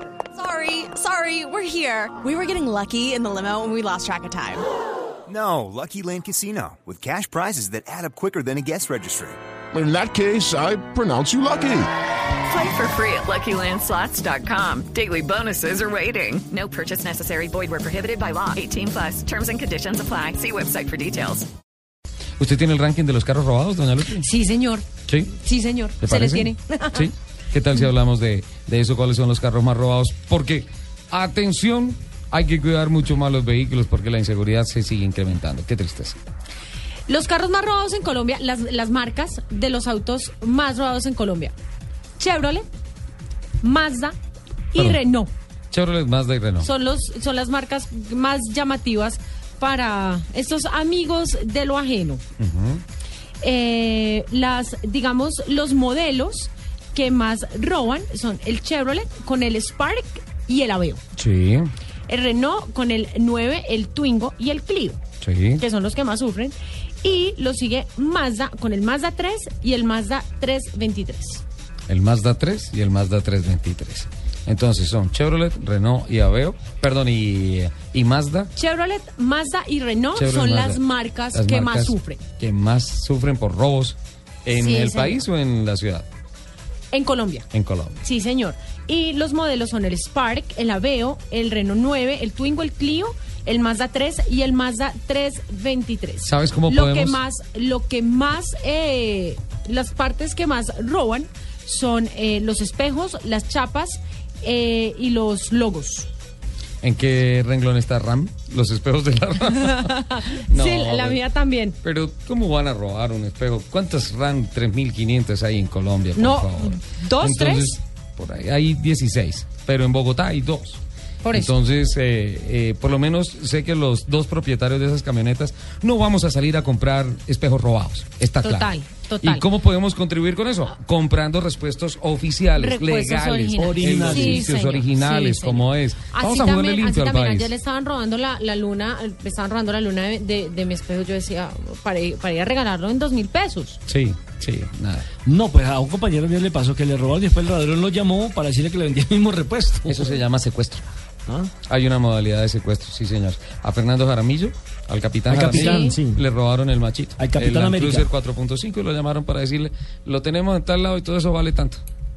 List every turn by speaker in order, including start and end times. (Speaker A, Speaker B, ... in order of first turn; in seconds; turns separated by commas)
Speaker A: 0.3-4.6, Speaker B: 5.3-9.4, Speaker C: 9.7-11.9, Speaker D: 12.5-21.5, Speaker E: 22.4-24.3, Speaker F: 24.2-24.9, Speaker E: 25.1-25.4, Speaker F: 25.4-27.1, Speaker E: 26.0-36.2, Speaker F: 37.1-41.5, Speaker F: 42.2-42.7, Speaker F: 43.6-44.1, Speaker F: 44.7-45.3, Speaker E: 45.7-46.7, Speaker F: 46.6-52.2, Speaker E: 52.4-52.8, Speaker F: 53.4-61.0, Speaker E: 61.2-61.7, Speaker F: 62.1-65.0, Speaker E: 65.2-65.6, Speaker F: 65.6-71.4, Speaker E: 71.9-78.5, Speaker F: 78.5-82.2, Speaker E: 80.2-86.1, Speaker F: 84.5-85.2, Speaker F: 86.9-87.5, Speaker E: 87.5-88.0, Speaker F: 88.0-106.1, Speaker E: 96.2-97.2, Speaker E: 106.8-111.2, Speaker F: 109.6-111.8, Speaker E: 111.8-120.8, Speaker F: 116.2-117.8, Speaker F: 121.2-121.5, Speaker E: 121.3-137.5, Speaker F: 128.4-129.5, Speaker F: 132.6-143.8, Speaker G: 133.6-134.4, Speaker E: 143.9-145.1, Speaker G: 145.2-150.1, Speaker E: 149.9-150.9, Speaker E: 151.7-161.8, Speaker G: 155.3-156.2, Speaker F: 155.5-156.0, Speaker G: 157.2-158.1